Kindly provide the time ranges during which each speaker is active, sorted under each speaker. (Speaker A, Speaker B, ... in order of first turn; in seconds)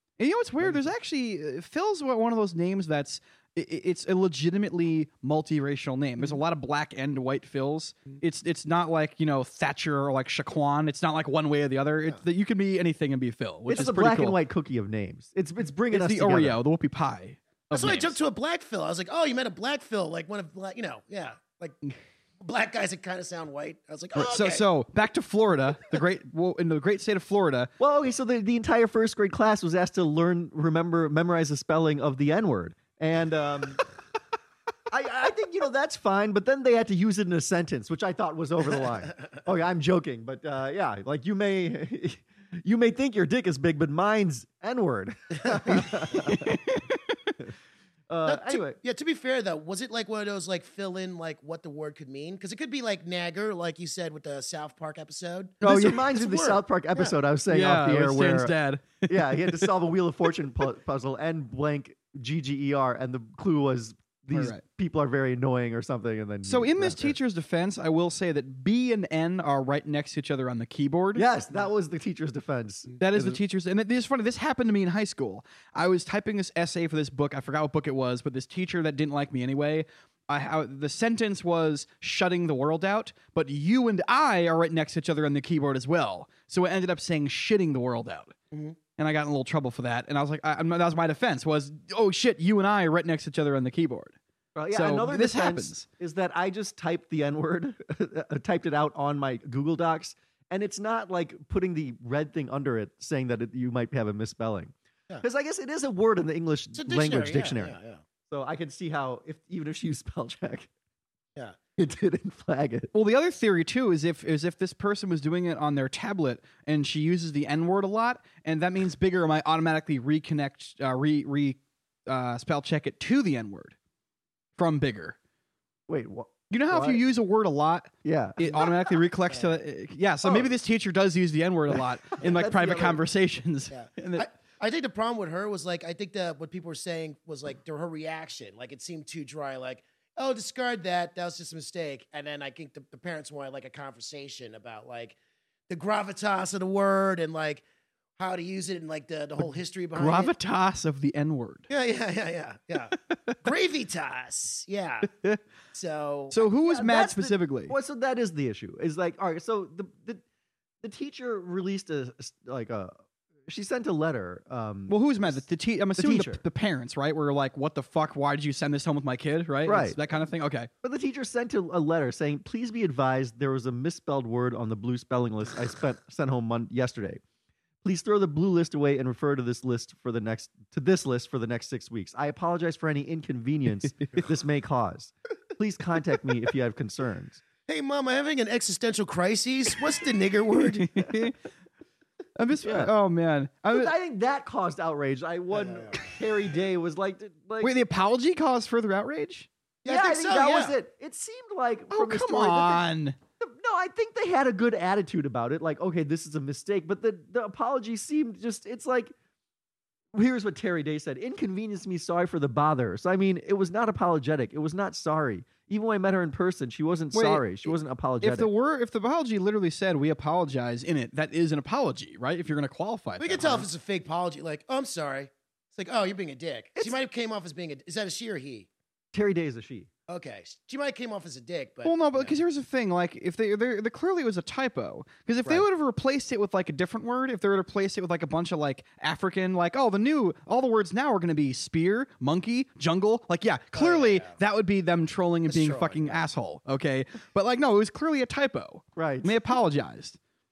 Speaker A: 0.2-14.4, 15.9-18.1, 24.1-27.7, 46.2-47.0, 55.7-56.0, 57.5-59.7, 64.3-64.6, 66.5-71.2, 73.0-88.3, 89.0-94.2, 94.7-95.8, 112.9-123.7, 124.6-125.2, 126.5-134.3, 149.9-151.7, 153.1-153.3, 155.1-155.4, 156.3-157.7, 164.9-170.7, 190.7-191.3, 192.4-193.9, 197.6-199.5, 201.9-203.2, 217.1-223.7, 231.8-250.2
Speaker B: 13.7-16.6, 27.8-33.8, 34.9-46.6, 48.1-48.8, 55.6-58.5, 59.1-67.1, 71.2-73.4, 94.5-107.7, 108.3-110.7, 111.8-112.9, 125.9-127.0, 128.0-128.7, 132.1-133.0, 156.6-160.2, 160.8-162.9, 163.5-165.4, 166.0-166.4, 169.7-170.0, 170.8-177.2, 177.8-187.4, 192.6-192.9, 193.7-197.8, 199.9-202.8, 203.4-209.1, 210.1-218.5, 229.1-229.9, 248.9-249.4
Speaker C: 17.7-21.8, 22.4-24.6, 48.2-57.1, 88.5-88.8, 106.7-108.0, 129.3-129.6, 133.7-145.2, 145.7-147.6, 148.2-150.3, 151.7-155.1, 155.7-156.3, 187.7-190.9, 195.5-196.1, 199.8-200.7, 223.2-228.7, 230.1-232.3, 243.7-244.4, 245.5-246.2